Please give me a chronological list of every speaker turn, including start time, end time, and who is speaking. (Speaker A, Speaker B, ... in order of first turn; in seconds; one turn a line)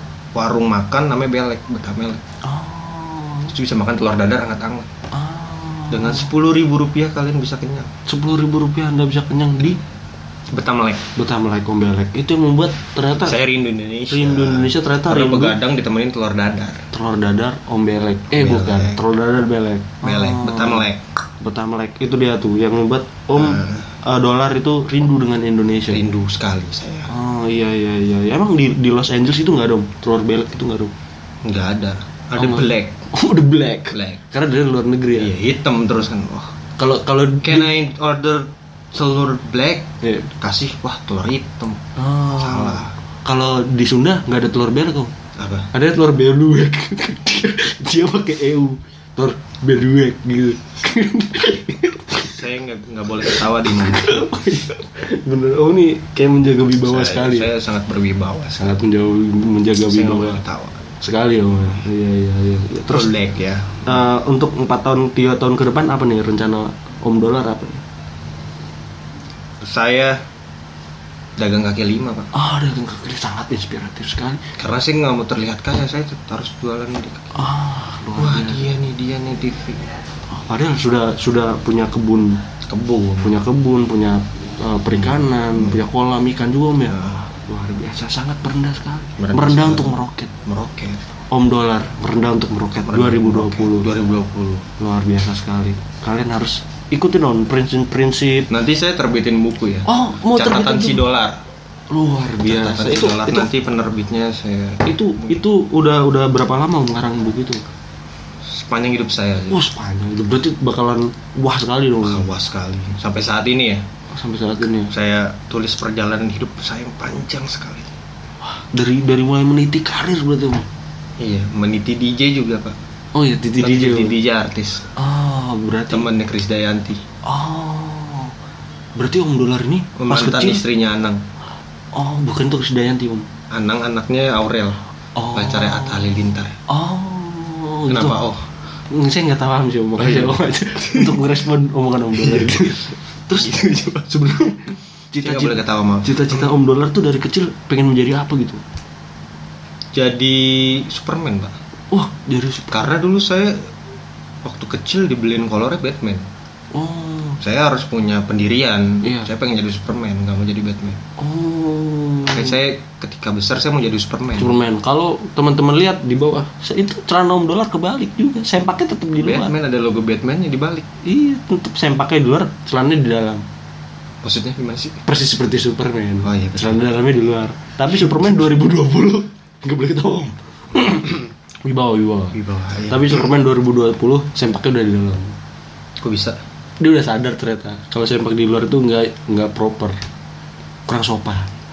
Speaker A: 0.3-2.2
Speaker B: 2.4-3.5
Speaker A: 3.5-4.9
Speaker B: 5.1-6.3
Speaker A: 5.9-7.9
Speaker B: 8.1-9.8
Speaker A: 10.5-11.0
Speaker B: 11.2-13.4
Speaker A: 13.2-16.8
Speaker B: 14.1-15.6
Speaker B: 16.9-20.9
Speaker A: 18.3-19.0
Speaker A: 20.0-21.0
Speaker B: 21.4-26.0
Speaker A: 23.3-23.9
Speaker A: 25.9-27.1
Speaker B: 27.1-30.9
Speaker A: 31.4-33.0
Speaker B: 32.4-35.3
Speaker A: 33.9-34.2
Speaker A: 35.1-36.5
Speaker B: 36.8-37.7
Speaker A: 37.4-41.8
Speaker B: 40.0-40.3
Speaker B: 42.0-45.1
Speaker A: 42.4-42.9
Speaker A: 45.4-45.7
Speaker B: 45.7-52.3
Speaker A: 52.2-54.3
Speaker B: 53.7-57.5
Speaker A: 56.8-58.8
Speaker B: 58.6-60.4
Speaker A: 59.8-60.8
Speaker B: 61.0-63.1
Speaker A: 62.9-63.8
Speaker B: 63.8-67.8
Speaker A: 69.6-70.2
Speaker A: 71.4-72.3
Speaker B: 72.3-74.4
Speaker A: 74.6-77.4
Speaker B: 77.3-78.6
Speaker A: 78.2-79.9
Speaker B: 80.3-82.4
Speaker A: 82.6-83.3
Speaker B: 83.2-90.3
Speaker A: 85.0-85.8
Speaker A: 86.9-87.3
Speaker A: 89.2-91.0
Speaker B: 91.3-93.9
Speaker A: 92.9-94.6
Speaker B: 94.8-98.5
Speaker A: 98.5-101.4
Speaker B: 99.8-101.0
Speaker B: 101.9-103.5
Speaker A: 102.4-105.4
Speaker B: 104.8-107.6
Speaker A: 108.5-109.6
Speaker B: 109.5-112.3
Speaker A: 112.0-113.8
Speaker B: 114.1-114.9
Speaker A: 114.9-117.9
Speaker B: 118.4-120.7
Speaker A: 121.2-122.8
Speaker B: 123.1-124.2
Speaker A: 123.6-124.8
Speaker B: 125.0-126.1
Speaker A: 125.9-127.0
Speaker B: 127.2-128.3
Speaker B: 128.9-130.6
Speaker A: 129.9-131.2
Speaker B: 131.9-133.3
Speaker A: 133.5-134.8
Speaker B: 135.2-136.0
Speaker A: 135.3-136.5
Speaker B: 136.7-138.2
Speaker A: 137.9-138.4
Speaker B: 138.9-148.6
Speaker A: 140.0-141.3
Speaker A: 142.2-142.7
Speaker A: 143.3-144.1
Speaker A: 145.2-146.5
Speaker A: 149.9-151.5
Speaker B: 151.9-152.9
Speaker A: 152.7-153.6
Speaker A: 154.4-156.3
Speaker B: 156.7-157.4
Speaker A: 157.4-161.0
Speaker B: 159.0-159.3
Speaker B: 161.2-162.6
Speaker A: 162.3-164.5
Speaker B: 164.4-169.5
Speaker A: 169.2-170.9
Speaker B: 171.0-173.4
Speaker A: 174.2-175.0
Speaker B: 175.1-182.4
Speaker A: 176.2-176.8
Speaker A: 182.3-183.3
Speaker B: 182.9-185.3
Speaker A: 186.0-186.4
Speaker B: 186.8-190.0
Speaker B: 190.9-191.5